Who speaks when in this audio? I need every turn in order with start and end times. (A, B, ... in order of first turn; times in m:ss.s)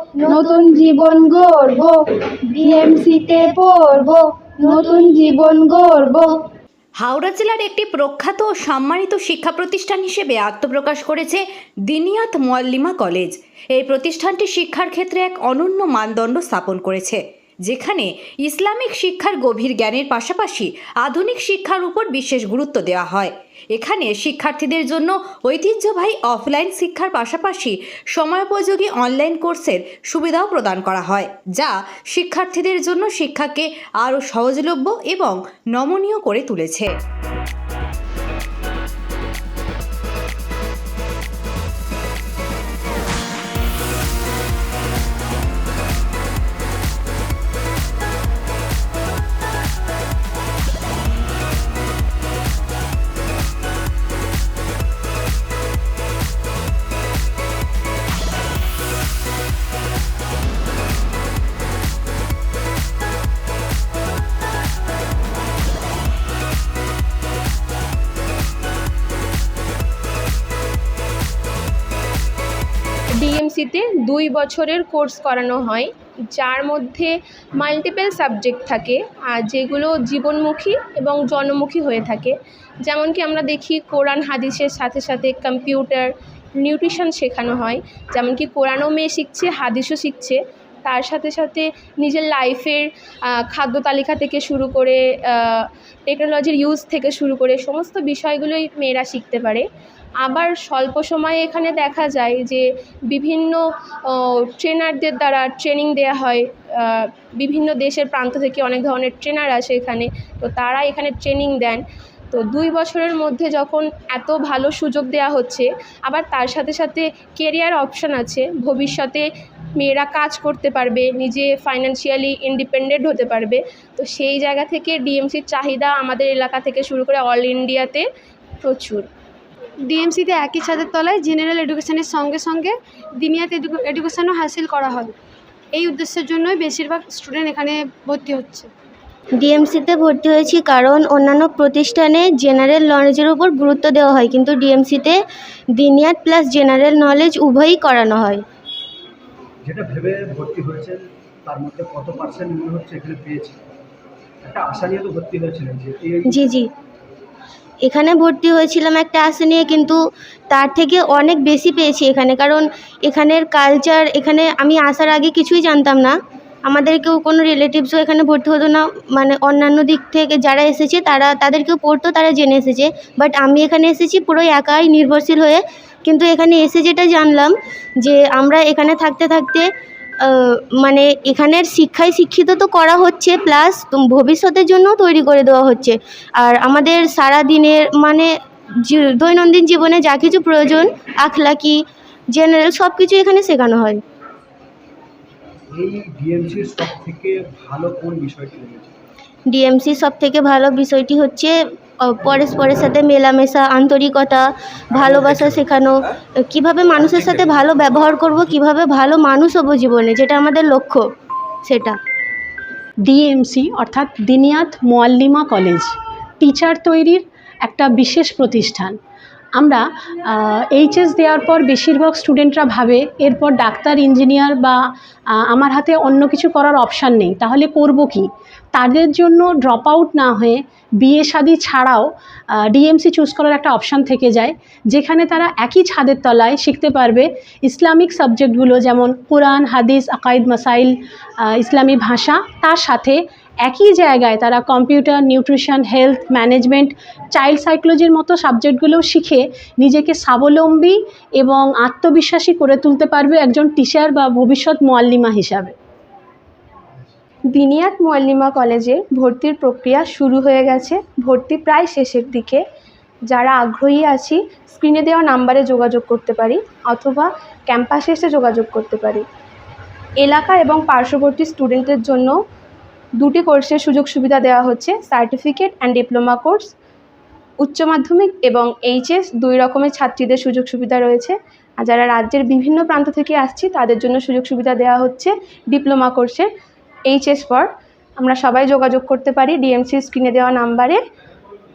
0:00.2-0:00.8 A
0:00.3-0:01.4 B
0:02.5-0:03.6 A
0:02.7-0:04.1 B
0:04.6-0:05.3 A
0:04.6-0:06.3 B
0:07.0-0:36.9 C
1:13.2-1:39.7 D
1:40.2-1:51.8 D
1:52.3-1:59.3 D
1:59.8-2:08.1 D
2:08.6-2:09.1 D
2:09.8-2:15.1 E
2:15.7-2:18.7 E
2:19.4-2:25.2 A
2:25.8-2:28.4 A
2:29.6-2:33.6 F
2:34.4-2:36.4 F
2:36.3-2:36.7 A
2:37.9-2:40.0 A
2:40.5-2:46.2 A
2:46.7-2:59.7 A
3:00.2-3:08.3 A
3:08.8-3:11.8 A
3:12.3-3:14.0 A
3:15.7-3:18.9 F
3:19.5-3:26.0 A
3:25.0-3:25.7 F
3:26.5-3:31.0 A
3:27.2-3:27.7 F
3:31.7-3:32.0 A
3:33.0-3:39.0 G
3:39.6-3:44.8 G
3:45.4-4:15.8 G
4:17.5-4:22.6 D
4:23.3-4:29.2 D
4:30.2-4:32.3 D
4:33.2-4:36.7 D
4:37.6-4:46.5 D
4:47.1-4:47.7 D
4:48.2-4:51.0 D